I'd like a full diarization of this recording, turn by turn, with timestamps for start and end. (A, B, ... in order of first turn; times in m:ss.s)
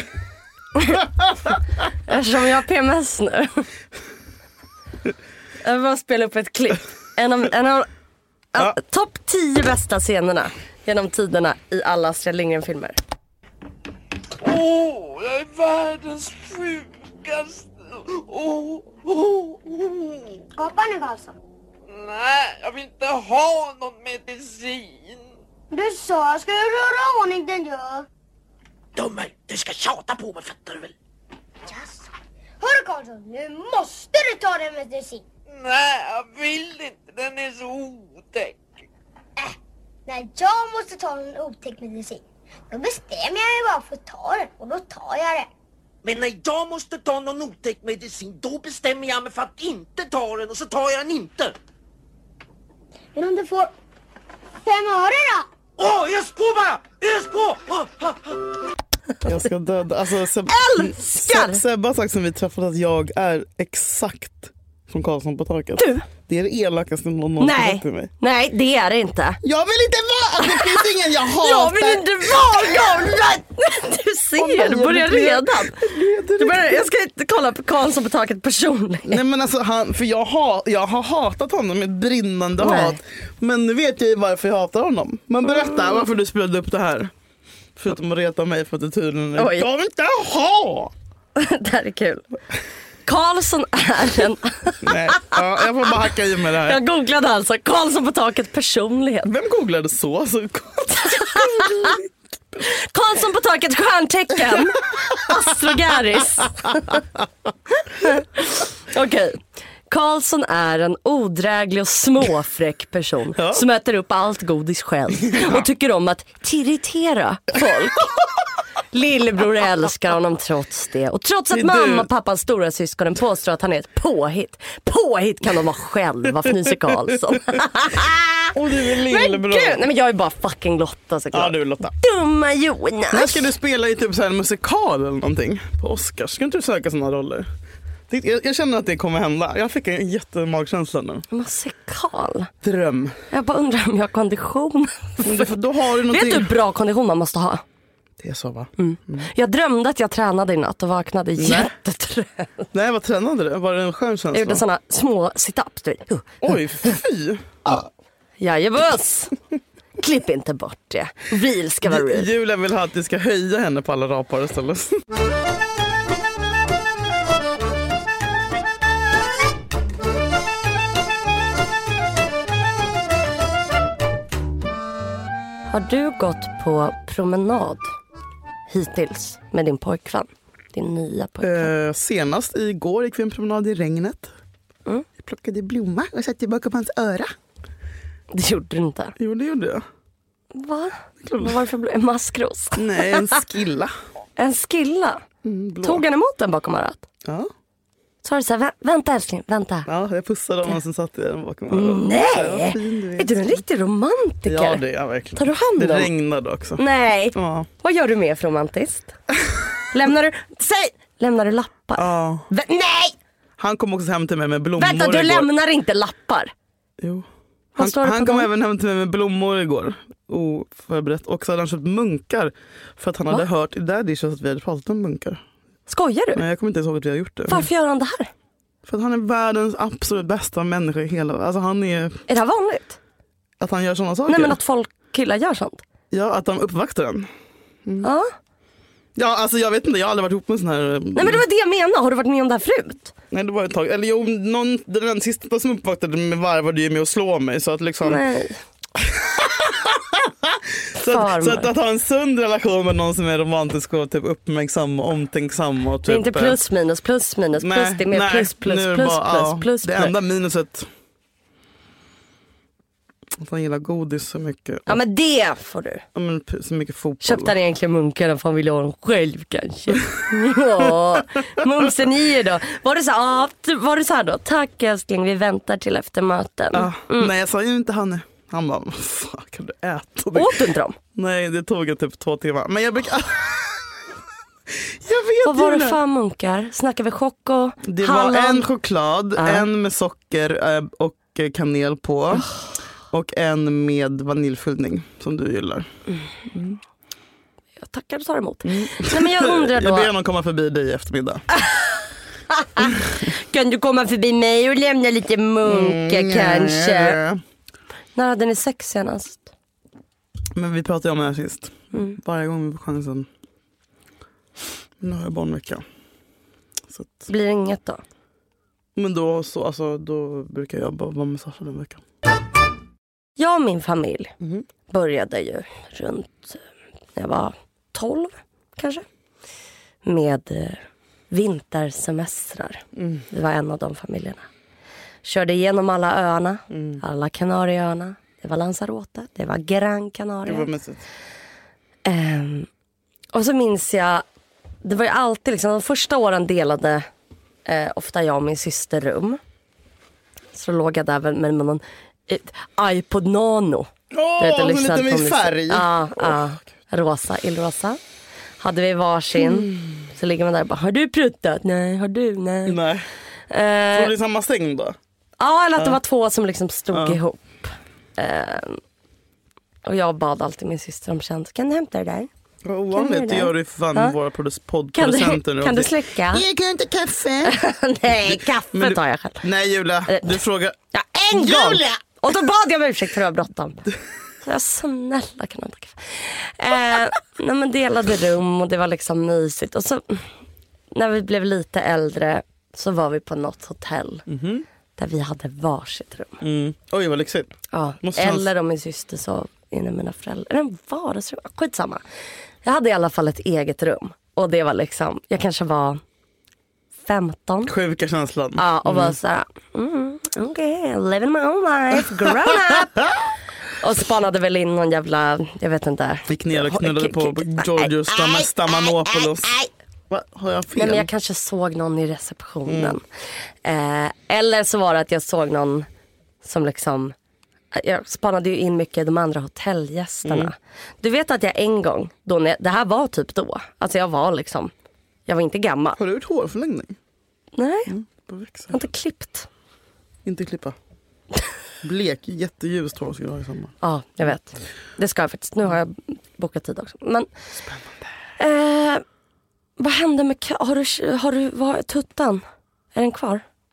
0:02.1-0:03.6 A
0:05.6-0:07.9 A
0:08.5-0:13.0 A
0:14.4-0:20.4 B
0:20.6-0:21.3 C
0:21.9-0:25.2 B
0:25.7-0:28.0 C
0:29.0-0:30.9 B
0:31.7-0:32.0 C
0:32.6-0:35.2 C
0:35.5-0:38.6 B
0:40.1-0:45.5 C
0:46.0-0:51.6 B
0:53.2-0:53.7 C
0:54.6-0:55.5 C
0:55.8-0:58.4 B
0:59.2-1:08.1 D
1:00.5-1:01.6 A
1:05.8-1:06.1 A
1:07.4-1:09.4 A
1:09.4-1:13.3 D
1:10.4-1:15.8 A
1:14.4-1:16.9 D
1:16.4-1:19.2 A
1:19.0-1:27.1 D
1:22.6-1:23.0 A
1:27.8-1:30.9 D
1:29.4-1:29.7 A
1:31.4-1:32.2 A
1:33.1-1:35.9 A
1:34.8-1:36.8 D
1:36.6-1:39.3 A
1:39.2-1:42.6 D
1:41.0-1:42.0 A
1:42.6-1:47.0 A
1:47.8-1:58.3 A
1:53.4-1:53.6 D
1:55.3-1:55.6 D
1:58.9-2:13.5 A
2:01.5-2:02.1 D
2:08.5-2:09.8 D
2:11.3-2:11.9 D
2:13.1-2:17.5 D
2:18.1-2:21.2 D
2:21.3-2:22.5 A
2:22.6-2:23.2 D
2:23.3-2:27.6 A
2:25.2-2:26.5 D
2:28.2-2:29.3 D
2:28.8-2:32.7 A
2:31.4-2:31.7 D
2:32.7-2:34.6 D
2:34.3-2:36.4 A
2:36.4-2:37.9 D
2:38.4-2:39.3 A
2:40.0-2:42.3 A
2:41.8-2:45.0 D
2:55.7-2:57.9 A
2:58.7-3:01.7 A
3:01.4-3:04.3 D
3:05.2-3:07.3 D
3:08.3-3:09.1 A
3:09.2-3:09.8 D
3:10.5-3:13.4 A
3:11.2-3:11.6 D
3:12.8-3:13.9 D
3:14.4-3:15.2 A
3:15.4-3:16.0 D
3:15.8-3:17.0 A
3:17.2-3:17.5 D
3:18.2-3:19.9 A
3:19.9-3:23.6 D
3:21.7-3:24.8 A
3:24.4-3:26.8 D
3:25.3-3:26.1 A
3:26.8-3:29.1 A
3:27.3-3:27.7 D
3:29.9-3:33.1 A
3:32.0-3:32.5 D
3:33.6-3:35.5 D
3:34.8-3:36.5 A
3:37.0-3:45.4 D
3:37.8-3:38.5 A
3:45.9-3:46.4 A
3:46.3-3:47.7 D
3:47.5-3:48.3 A
3:48.8-3:52.2 D
3:52.3-3:53.0 A
3:53.6-3:54.6 D
3:54.3-3:55.8 A
3:56.1-3:57.3 D
3:58.0-3:58.3 A
3:59.1-4:01.4 D
4:01.1-4:03.1 A
4:03.3-4:08.2 D
4:08.0-4:08.6 A
4:09.0-4:16.6 D
4:11.0-4:11.7 A
4:16.1-4:20.1 A
4:17.6-4:20.9 D
4:23.4-4:25.0 D
4:24.9-4:26.0 A
4:26.1-4:27.5 D
4:27.2-4:37.3 A
4:36.7-4:44.0 D
4:40.3-4:41.0 A
4:44.7-4:46.0 D
4:45.4-4:48.7 A
4:47.8-4:52.5 D
4:49.4-4:49.7 A
4:53.1-4:55.9 D
4:56.5-4:56.8 D
4:57.8-5:00.1 A
4:58.6-5:01.4 D
5:01.6-5:01.8 A
5:02.5-5:07.2 A
5:05.6-5:07.4 D
5:08.1-5:09.5 A
5:10.5-5:13.3 D
5:11.9-5:12.2 A
5:15.0-5:15.8 D
5:16.9-5:17.2 D
5:17.3-5:18.0 A
5:19.0-5:22.0 D
5:23.4-5:24.3 A
5:24.9-5:26.6 A
5:27.2-5:29.0 A
5:30.0-5:34.4 A
5:32.9-5:33.2 D
5:35.2-5:40.7 A
5:36.7-5:37.0 D
5:40.4-5:41.0 D
5:42.0-5:42.7 A
5:43.3-5:44.2 A
5:44.8-5:47.1 A
5:47.6-5:49.4 A
5:50.5-5:58.0 A
5:54.1-5:56.4 D
5:58.6-6:02.8 A
5:59.3-6:00.0 D
6:02.6-6:03.1 D
6:03.5-6:04.1 A
6:03.9-6:05.0 D
6:05.4-6:08.8 A
6:06.9-6:07.2 D
6:09.8-6:12.3 A
6:12.6-6:20.8 D
6:12.9-6:14.1 A
6:14.9-6:16.4 A
6:17.4-6:19.4 A
6:20.1-6:20.4 A
6:20.9-6:23.8 A
6:21.3-6:22.0 D
6:24.4-6:30.3 A
6:30.9-6:34.3 A
6:34.3-6:34.6 D
6:35.0-6:36.4 A
6:36.4-6:38.5 D
6:37.7-6:42.0 A
6:42.6-6:46.0 A
6:47.1-6:47.7 A
6:47.7-6:49.2 D
6:48.6-6:53.0 A
6:52.4-6:53.0 D
6:53.7-6:59.7 A
6:56.3-6:59.5 D
7:00.1-7:01.1 D
7:00.8-7:03.0 A
7:02.6-7:03.0 D
7:03.6-7:05.9 A
7:06.4-7:07.1 A
7:07.7-7:14.7 A
7:10.2-7:10.5 D
7:15.3-7:16.0 A
7:16.0-7:17.0 D
7:17.5-7:17.9 A
7:17.9-7:18.8 D
7:18.7-7:19.5 A
7:20.2-7:20.8 D
7:21.8-7:23.7 D
7:23.8-7:27.3 A
7:28.4-7:29.0 A
7:29.8-7:32.4 A
7:32.9-7:33.4 A